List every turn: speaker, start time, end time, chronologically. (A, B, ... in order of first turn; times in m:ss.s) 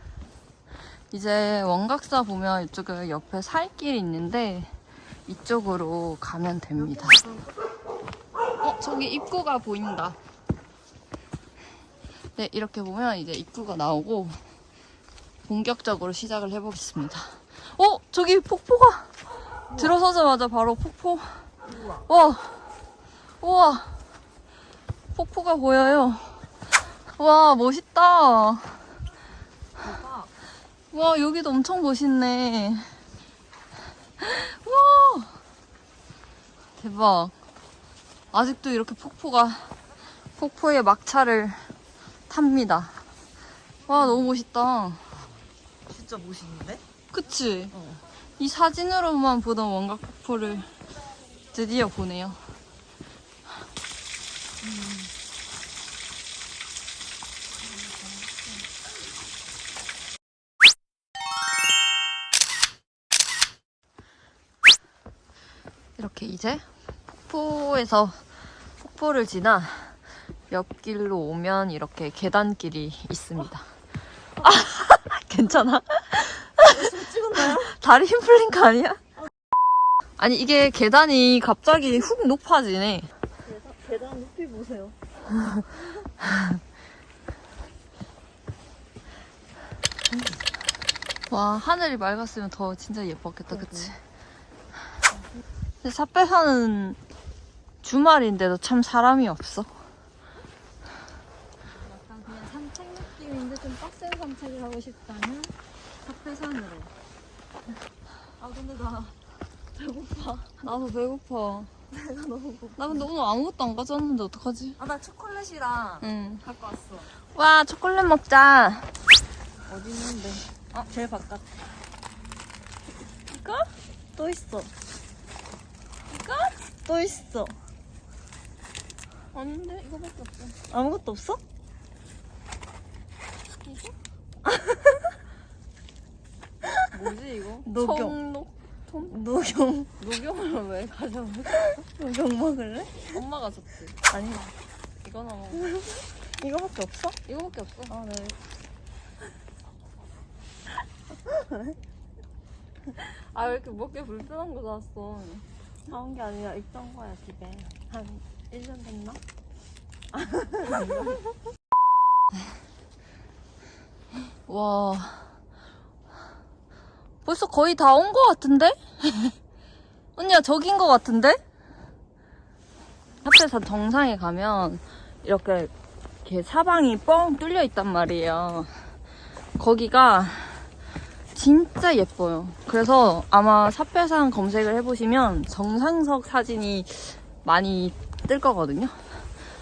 0:01.1-0:07.2 A
0:07.1-0:07.4 B
0:08.6-0:10.2 A
0:12.4-0:14.4 A
0:15.4-0:19.1 A
0:19.7-0:21.5 A
0:21.7-0:22.0 B
0:22.1-0:22.7 A
0:23.4-0:24.0 A
0:25.1-0:26.5 A
0:27.1-0:28.8 A
0:29.8-0:30.3 B
0:30.9-0:32.9 A
0:34.2-0:35.4 A
0:36.8-0:37.3 A
0:38.3-0:39.7 A
0:40.4-0:41.7 A
0:42.3-0:43.0 A
0:43.9-0:45.0 A
0:45.9-0:46.8 B
0:47.1-0:47.7 A
0:47.7-0:48.0 B
0:48.4-0:50.7 A
0:51.5-0:52.4 A
0:54.6-0:55.0 B
1:06.0-1:08.2 A
1:08.8-1:10.0 A
1:10.5-1:13.7 A
1:14.4-1:16.8 A
1:16.7-1:17.7 B
1:17.4-1:19.0 A
1:20.2-1:23.1 A
1:23.4-1:24.9 B
1:31.3-1:34.0 A
1:33.5-1:33.9 B
1:35.8-1:37.0 A
1:37.8-1:39.7 A
1:41.8-1:46.9 B
1:48.4-1:49.1 B
1:49.7-1:50.5 B
1:50.6-1:51.7 A
1:51.9-1:53.0 B
1:52.8-1:54.8 A
1:54.8-1:57.1 B
1:56.0-1:56.4 A
1:57.3-1:58.9 A
1:59.6-2:01.6 B
2:03.3-2:03.7 A
2:04.1-2:04.7 B
2:06.1-2:06.5 A
2:06.8-2:07.6 B
2:09.3-2:10.6 A
2:10.7-2:11.4 B
2:13.7-2:13.9 A
2:14.5-2:15.0 B
2:16.9-2:19.2 A
2:17.6-2:18.2 B
2:19.1-2:20.0 B
2:20.0-2:21.8 A
2:21.7-2:23.2 B
2:23.1-2:24.2 A
2:25.0-2:25.8 A
2:25.7-2:27.2 B
2:27.2-2:28.0 A
2:27.9-2:28.4 B
2:31.3-2:31.6 B
2:32.9-2:35.4 A
2:35.9-2:39.2 B
2:40.1-2:41.2 B
2:44.4-2:45.3 A
2:47.2-2:49.4 A
2:50.2-2:51.4 A
2:53.2-2:55.7 A
2:56.2-2:58.8 A
2:59.6-3:00.7 A
3:01.3-3:09.0 A